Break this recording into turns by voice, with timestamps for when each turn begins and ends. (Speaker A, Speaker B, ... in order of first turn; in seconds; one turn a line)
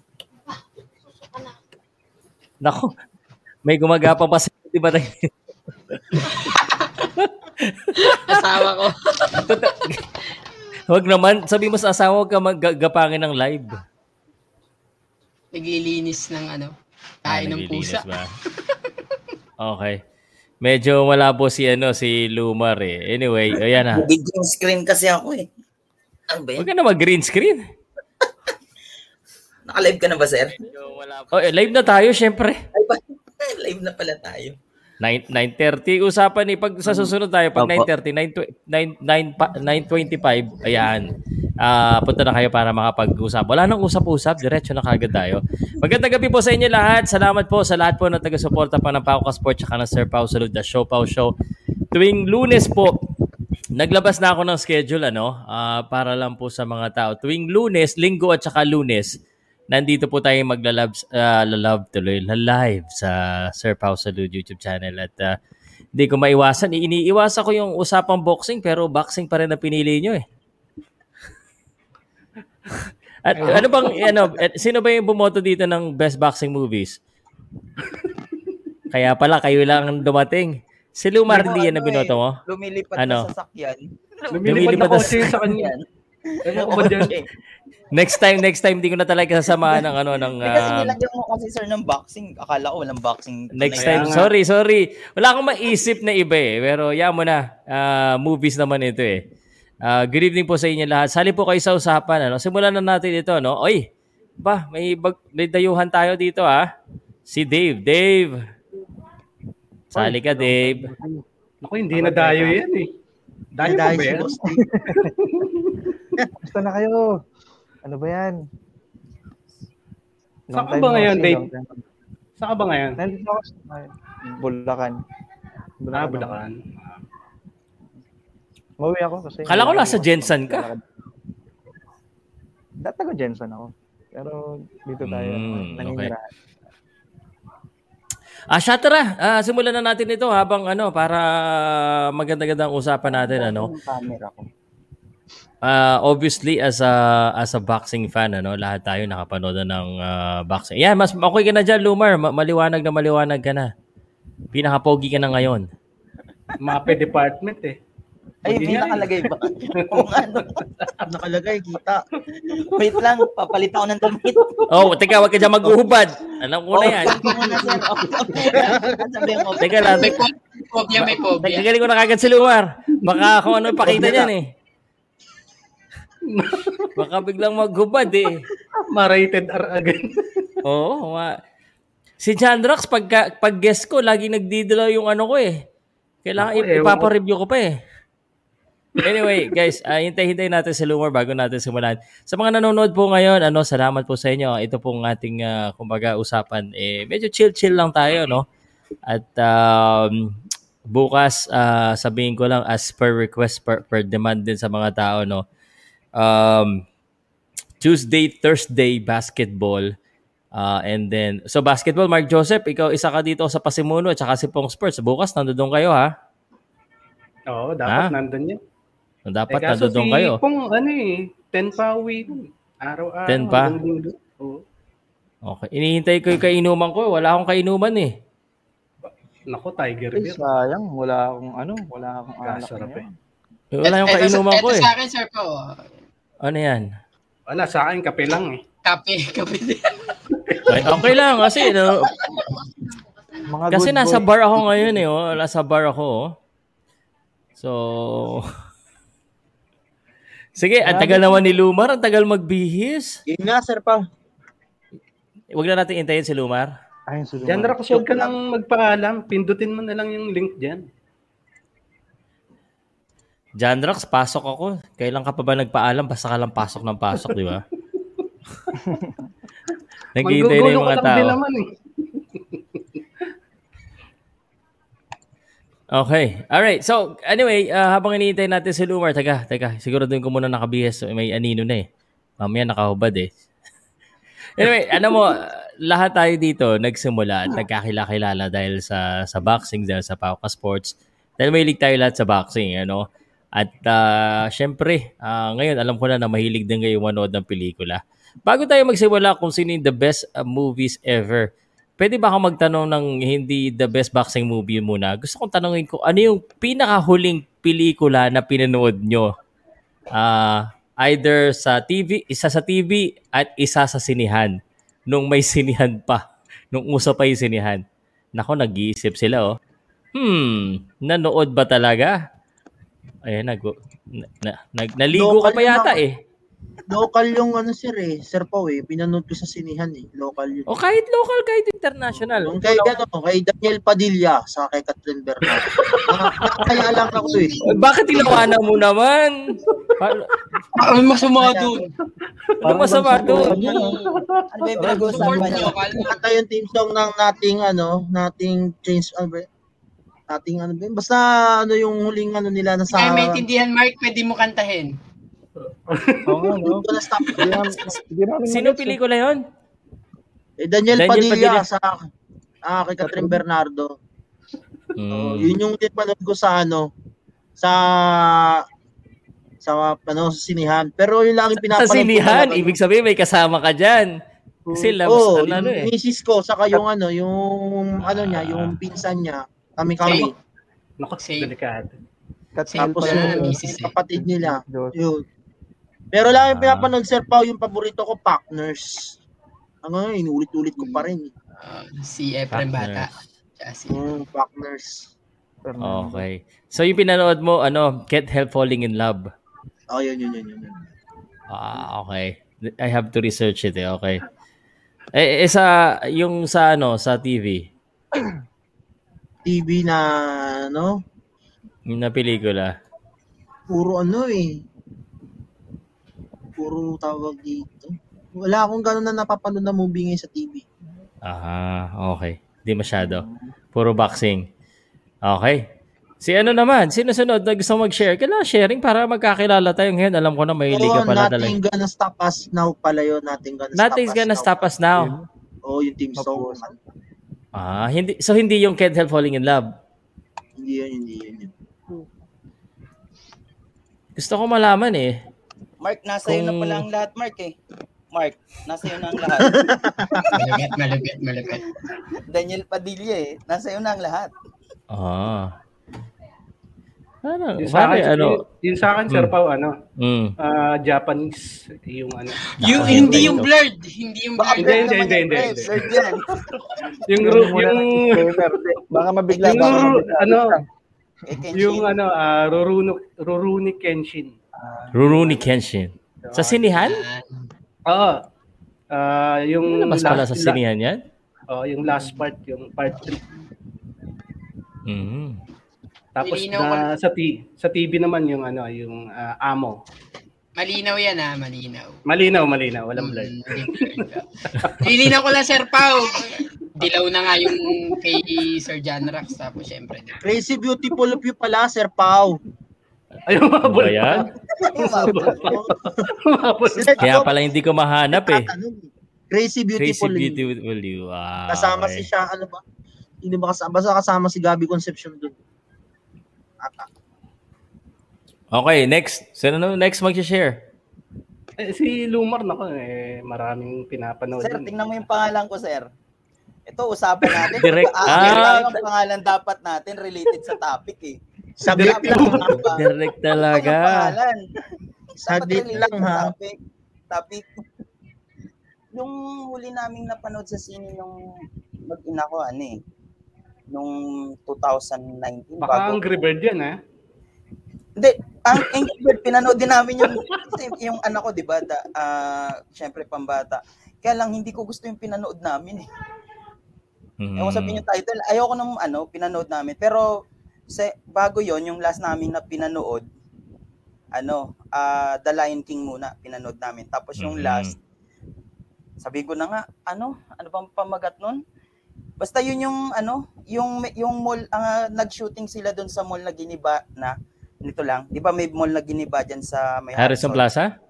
Speaker A: 2.6-2.9
Speaker A: 3.6-5.3
Speaker A: 5.9-6.3
Speaker B: 6.2-7.1
Speaker A: 7.2-8.4
Speaker B: 8.0-9.6
Speaker A: 9.3-10.0
Speaker A: 10.9-13.8
Speaker B: 15.5-16.7
Speaker B: 17.2-18.1
Speaker A: 17.3-18.3
Speaker A: 19.6-20.0
Speaker A: 20.6-24.1
Speaker C: 23.9-25.5
Speaker C: 26.3-26.7
Speaker A: 26.6-27.6
Speaker C: 29.7-30.7
Speaker A: 31.1-32.6
Speaker C: 32.7-34.6
Speaker A: 35.0-51.3
Speaker C: 37.6-37.9
Speaker A: 51.9-53.0
Speaker A: 53.8-59.1
Speaker A: 59.7-65.4
Speaker A: 66.0-70.2
Speaker A: 73.2-77.0
Speaker D: 73.4-74.0
Speaker C: 73.4-74.3
Speaker A: 78.9-82.4
Speaker C: 81.3-87.3
Speaker A: 83.0-83.3
Speaker D: 84.3-85.7
Speaker A: 84.4-85.3
Speaker D: 86.5-87.1
Speaker A: 87.9-91.0
Speaker C: 89.7-94.2
Speaker A: 93.5-99.2
Speaker D: 93.7-94.3
Speaker A: 99.8-103.9
Speaker A: 104.4-106.7
Speaker A: 107.3-108.4
Speaker A: 110.0-110.9
Speaker E: 110.0-111.2
Speaker D: 111.6-112.9
Speaker E: 111.9-112.6
Speaker D: 113.6-114.3
Speaker F: 113.6-114.6
Speaker E: 114.6-115.1
Speaker D: 115.2-115.8
Speaker E: 116.4-117.0
Speaker E: 117.8-118.4
Speaker E: 120.5-121.9
Speaker D: 120.5-121.5
Speaker D: 122.4-123.0
Speaker E: 123.0-125.0
Speaker E: 125.8-126.4
Speaker D: 125.9-127.0
Speaker E: 128.8-131.1
Speaker A: 129.5-130.7
Speaker E: 132.8-136.3
Speaker A: 135.0-136.1
Speaker A: 138.5-143.7
Speaker C: 143.1-144.5
Speaker A: 145.6-153.7
Speaker A: 154.5-155.7
Speaker D: 156.6-157.8
Speaker C: 158.4-160.6
Speaker D: 158.4-161.1
Speaker F: 161.1-162.1
Speaker C: 162.6-164.7
Speaker D: 164.3-164.7
Speaker A: 164.7-167.2
Speaker C: 166.7-170.2
Speaker D: 167.2-168.5
Speaker F: 168.6-169.0
Speaker A: 169.6-170.2
Speaker B: 169.9-171.7
Speaker A: 171.4-174.5
Speaker D: 173.0-174.2
Speaker D: 176.3-176.9
Speaker A: 177.0-178.4
Speaker D: 178.9-180.6
Speaker A: 180.7-181.3
Speaker A: 182.2-185.6
Speaker A: 186.2-187.8
Speaker D: 186.4-187.1
Speaker A: 189.0-198.5
Speaker D: 189.1-189.3
Speaker A: 199.1-200.3
Speaker A: 200.9-205.4
Speaker A: 206.2-206.8
Speaker A: 207.8-209.9
Speaker A: 210.5-216.1
Speaker D: 217.5-218.6
Speaker A: 217.9-218.1
Speaker A: 219.3-220.4
Speaker D: 219.5-224.6
Speaker A: 223.3-223.8
Speaker A: 225.4-228.1
Speaker D: 229.1-230.4
Speaker E: 230.1-233.1
Speaker D: 232.5-233.1
Speaker A: 233.7-234.9
Speaker B: 233.8-235.8
Speaker A: 236.4-236.8
Speaker D: 237.5-238.6
Speaker B: 238.8-240.0
Speaker D: 240.3-241.2
Speaker A: 240.7-242.1
Speaker B: 242.2-242.5
Speaker E: 243.5-245.1
Speaker A: 243.7-246.3
Speaker A: 247.6-248.5
Speaker A: 250.6-253.2
Speaker E: 250.8-251.5
Speaker F: 253.3-254.0
Speaker A: 255.6-256.7
Speaker E: 257.1-258.3
Speaker D: 257.4-260.8
Speaker A: 263.6-267.6
Speaker E: 268.8-269.1
Speaker A: 270.1-271.4
Speaker D: 270.2-273.3
Speaker A: 275.9-281.9
Speaker A: 282.4-283.3
Speaker A: 284.6-293.0
Speaker A: 293.6-309.3
Speaker A: 310.1-314.6
Speaker A: 315.1-317.8
Speaker A: 318.4-319.6
Speaker A: 320.1-322.2
Speaker A: 323.2-326.2
Speaker F: 325.1-326.0
Speaker F: 326.9-330.7
Speaker A: 330.7-332.9
Speaker F: 332.4-337.6
Speaker D: 335.6-336.7
Speaker B: 337.0-337.6
Speaker A: 337.6-339.4
Speaker B: 338.1-338.4
Speaker A: 340.0-340.3
Speaker B: 340.8-341.9
Speaker F: 341.4-341.8
Speaker D: 342.6-345.6
Speaker A: 342.6-343.6
Speaker E: 343.1-343.9
Speaker C: 344.6-345.8
Speaker E: 344.8-345.6
Speaker B: 345.1-346.2
Speaker F: 346.0-349.5
Speaker F: 350.3-353.4
Speaker B: 352.9-354.9
Speaker D: 355.9-356.6
Speaker E: 356.3-359.0
Speaker F: 356.7-357.7
Speaker A: 358.5-359.4
Speaker F: 360.6-362.0
Speaker A: 360.9-361.7
Speaker F: 362.6-364.0
Speaker E: 363.0-363.4
Speaker A: 365.0-365.5
Speaker F: 365.1-366.9
Speaker F: 367.6-368.6
Speaker F: 369.6-372.7
Speaker A: 371.6-374.1
Speaker E: 374.7-375.1
Speaker A: 374.8-375.9
Speaker F: 375.1-380.3
Speaker A: 378.0-378.8
Speaker B: 380.0-380.3
Speaker D: 381.0-381.9
Speaker B: 381.2-381.5
Speaker E: 382.6-384.9
Speaker B: 382.7-383.9
Speaker F: 382.8-385.2
Speaker F: 386.1-389.2
Speaker A: 386.3-386.9
Speaker F: 389.8-391.3
Speaker B: 391.6-394.1
Speaker A: 392.5-393.1
Speaker F: 393.9-395.1
Speaker E: 395.6-396.3
Speaker A: 395.8-399.3
Speaker F: 399.9-400.8
Speaker A: 401.5-404.2
Speaker A: 405.1-407.7
Speaker F: 409.4-411.0
Speaker A: 411.9-412.8
Speaker F: 413.7-414.6
Speaker F: 416.6-420.6
Speaker A: 421.2-424.5
Speaker E: 423.0-423.5
Speaker A: 425.2-425.7
Speaker A: 426.2-431.6
Speaker F: 430.7-434.7
Speaker A: 433.8-435.1
Speaker E: 435.0-435.3
Speaker F: 435.6-436.8
Speaker E: 436.2-436.7
Speaker A: 437.6-439.7
Speaker F: 440.6-441.5
Speaker A: 444.2-445.2
Speaker C: 445.8-447.6
Speaker A: 446.2-446.8
Speaker C: 448.1-450.6
Speaker F: 449.4-450.4
Speaker B: 450.3-451.7
Speaker C: 452.2-454.3
Speaker A: 454.9-455.6
Speaker A: 457.2-458.4
Speaker D: 457.6-459.8
Speaker A: 460.0-460.4
Speaker D: 460.4-463.4
Speaker B: 462.4-465.0
Speaker A: 462.6-463.5
Speaker C: 464.4-466.3
Speaker D: 464.6-468.6
Speaker E: 467.1-470.6
Speaker C: 469.3-470.0
Speaker D: 469.4-470.6
Speaker C: 471.3-471.9
Speaker D: 471.5-474.3
Speaker E: 474.6-475.4
Speaker A: 474.9-477.0
Speaker D: 476.2-476.6
Speaker B: 476.8-477.4
Speaker D: 477.9-478.2
Speaker D: 478.9-480.6
Speaker A: 479.7-481.0
Speaker D: 481.5-483.2
Speaker E: 481.9-482.2
Speaker A: 484.9-485.4
Speaker D: 486.2-489.8
Speaker B: 486.2-486.9
Speaker B: 490.6-492.0
Speaker D: 492.1-495.2
Speaker B: 493.0-494.2
Speaker B: 494.8-500.2
Speaker F: 500.2-502.4
Speaker D: 503.3-507.1
Speaker A: 503.6-504.3
Speaker C: 504.6-505.4
Speaker F: 505.0-506.1
Speaker F: 506.7-507.3
Speaker A: 507.0-508.5
Speaker F: 508.1-510.4
Speaker A: 509.8-512.0
Speaker F: 511.5-512.6
Speaker F: 513.2-515.3
Speaker F: 516.6-516.9
Speaker A: 518.5-520.6
Speaker D: 521.6-524.8
Speaker C: 524.4-525.9
Speaker C: 526.7-531.2
Speaker A: 527.6-528.7
Speaker F: 531.6-532.6
Speaker D: 531.7-532.6
Speaker C: 531.7-532.9
Speaker A: 532.6-534.1
Speaker C: 533.5-534.4
Speaker F: 535.2-536.3
Speaker C: 535.3-536.6
Speaker C: 537.1-537.5
Speaker C: 538.9-541.1
Speaker C: 541.9-542.8
Speaker C: 543.7-546.0
Speaker D: 545.6-546.8
Speaker C: 548.0-555.9
Speaker D: 550.0-550.6
Speaker A: 557.2-557.8
Speaker C: 557.4-560.1
Speaker C: 560.7-563.0
Speaker C: 564.1-567.8
Speaker A: 567.2-567.7
Speaker C: 569.0-571.4
Speaker C: 572.2-580.4
Speaker A: 580.0-580.7